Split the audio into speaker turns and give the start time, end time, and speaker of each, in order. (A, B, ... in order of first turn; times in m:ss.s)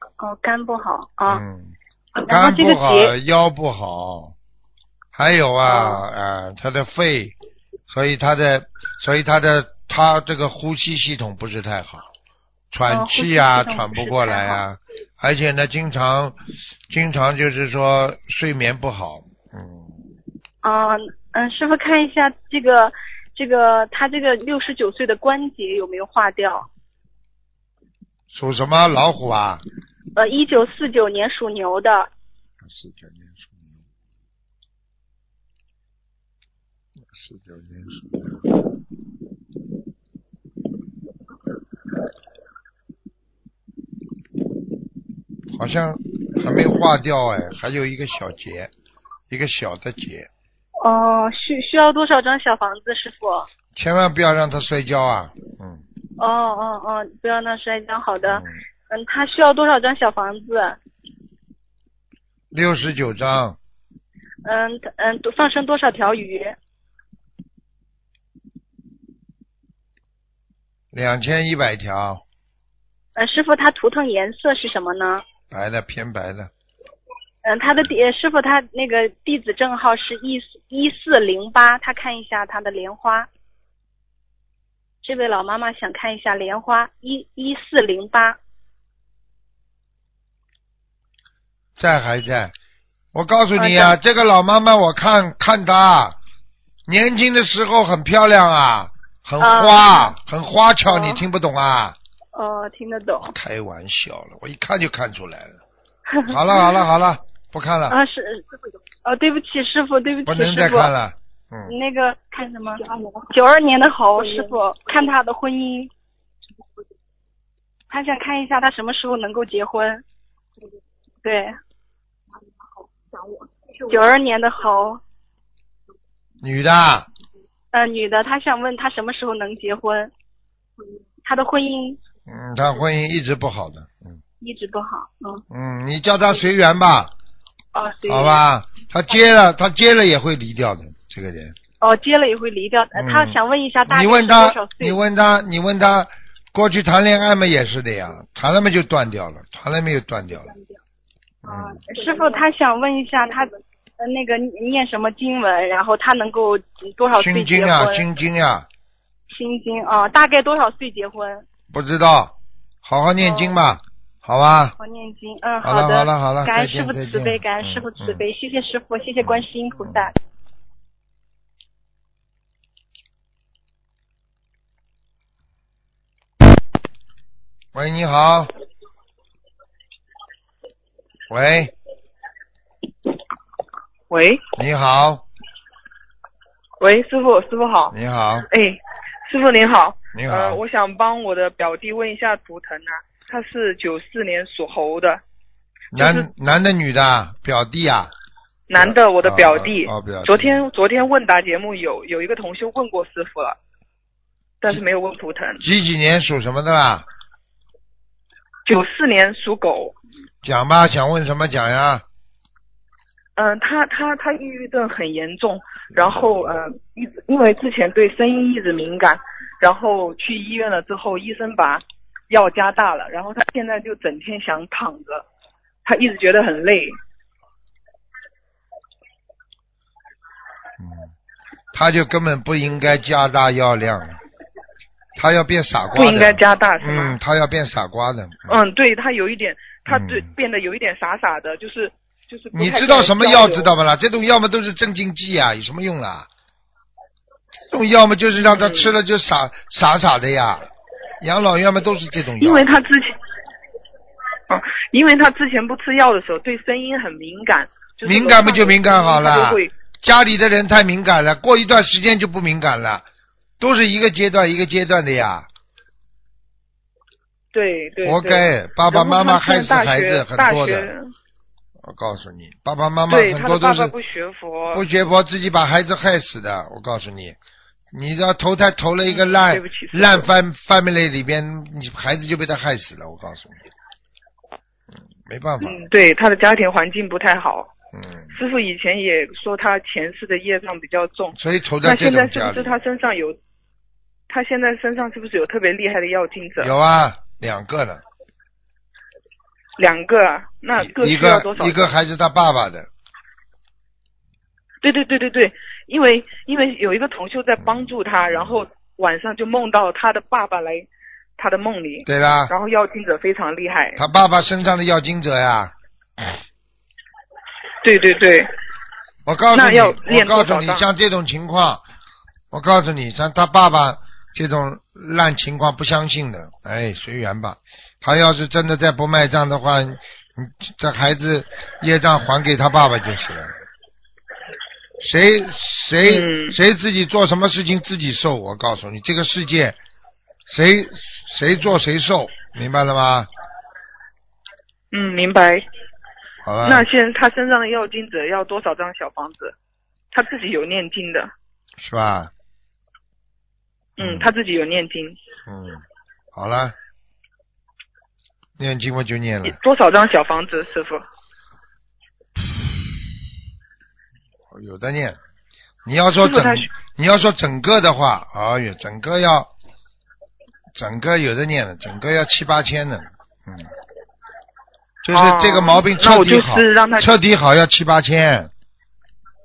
0:00.2-0:01.4 A
0:01.3-0:01.7 B
0:02.2-0:03.1 A
0:02.3-0:04.4 B
0:05.1-0:07.4 B
0:05.6-0:06.0 A
0:07.9-0:12.1 B
0:12.7-0:16.4 B
0:12.9-0:14.6 A
0:16.9-0:19.9 B
0:20.6-0:26.7 A
0:28.3-0:29.6 B
0:30.2-0:32.1 A
0:32.6-0:33.8 B
0:37.1-0:38.6 B
0:45.5-0:48.7 B
0:49.3-0:50.3 B
0:50.8-0:53.5 A
0:53.8-0:55.8 B
0:56.2-1:00.8 A
0:58.2-0:58.6 B
1:02.5-1:03.6 B
1:04.4-1:06.6 A
1:10.9-1:12.2 B
1:13.2-1:15.2 A
1:15.5-1:16.5 B
1:17.4-1:23.3 A
1:25.0-1:28.4 A
1:31.8-1:32.6 B
1:33.1-1:36.2 B
1:33.6-1:34.0 A
1:36.9-1:42.0 B
1:39.4-1:40.1 A
1:40.9-1:41.2 A
1:42.3-1:43.4 A
1:43.2-1:45.6 B
1:46.2-1:48.0 B
1:47.9-1:50.9 A
1:50.2-1:51.8 B
1:51.7-1:55.9 A
1:57.9-2:00.0 A
2:01.2-2:01.6 A
2:03.8-2:05.0 A
2:06.4-2:07.1 B
2:07.7-2:10.1 A
2:11.2-2:12.0 A
2:12.2-2:14.2 B
2:14.4-2:15.4 A
2:15.5-2:17.1 B
2:17.7-2:18.4 A
2:18.1-2:21.6 B
2:21.8-2:25.0 A
2:22.9-2:30.5 B
2:30.5-2:30.8 A
2:31.4-2:31.8 B
2:31.4-2:38.0 A
2:37.2-2:38.7 B
2:39.3-2:41.4 A
2:41.7-2:44.7 B
2:43.2-2:43.6 A
2:44.8-2:50.1 A
2:45.6-2:48.2 B
2:49.2-2:50.1 B
2:57.7-2:58.5 B
3:01.3-3:01.7 B
3:04.1-3:04.4 C
3:04.6-3:05.2 B
3:06.8-3:07.9 C
3:07.9-3:08.5 B
3:08.5-3:15.2 C
3:10.1-3:10.6 B
3:15.9-3:18.1 B
3:15.9-3:16.3 C
3:18.7-3:23.6 C
3:18.7-3:20.6 B
3:24.6-3:25.6 C
3:25.6-3:27.1 B
3:28.6-3:30.0 C
3:30.4-3:32.0 B
3:33.4-3:45.2 C
3:45.8-3:47.0 C
3:50.8-3:51.1 B
3:51.7-3:54.2 B
3:55.2-3:58.6 B
3:56.0-3:57.2 C
3:58.5-4:03.7 C
3:59.9-4:00.3 B
4:02.5-4:06.3 B
4:07.7-4:10.7 B
4:08.4-4:08.9 C
4:11.2-4:12.7 B
4:12.4-4:13.2 C
4:14.5-4:19.7 C
4:18.0-4:23.0 B
4:23.6-4:25.5 B
4:27.5-4:31.1 C
4:28.0-4:30.9 B
4:31.8-4:33.9 B
4:33.1-4:34.9 C
4:34.7-4:37.4 B
4:37.9-4:43.6 B
4:39.1-4:40.3 C
4:45.3-4:45.8 B
4:45.6-4:47.7 C
4:47.9-4:48.4 B
4:48.3-4:53.4 C
4:51.3-4:52.8 B
4:54.3-4:56.7 C
4:56.6-4:58.0 B
4:59.8-5:01.9 C
5:00.8-5:02.9 B
5:04.8-5:14.0 C
5:08.3-5:08.6 B
5:12.1-5:12.5 B
5:14.0-5:16.3 B
5:17.8-5:18.5 C
5:19.3-5:21.8 B
5:19.5-5:20.9 C
5:22.5-5:33.6 B
5:35.0-5:39.8 B
5:36.0-5:36.6 C
5:40.4-5:43.3 B
5:44.9-5:45.6 C
5:46.4-5:46.9 B
5:46.6-5:49.5 C
5:50.1-5:51.3 C
5:51.8-5:52.3 B
5:54.0-5:55.2 C
5:54.0-5:54.3 B
5:55.5-5:56.7 B
5:58.6-5:59.6 B
5:59.4-6:01.0 C
6:02.4-6:03.0 B
6:04.5-6:05.2 B
6:05.8-6:09.5 B
6:06.2-6:06.7 C
6:10.8-6:13.7 B
6:15.0-6:18.5 B
6:15.1-6:17.2 C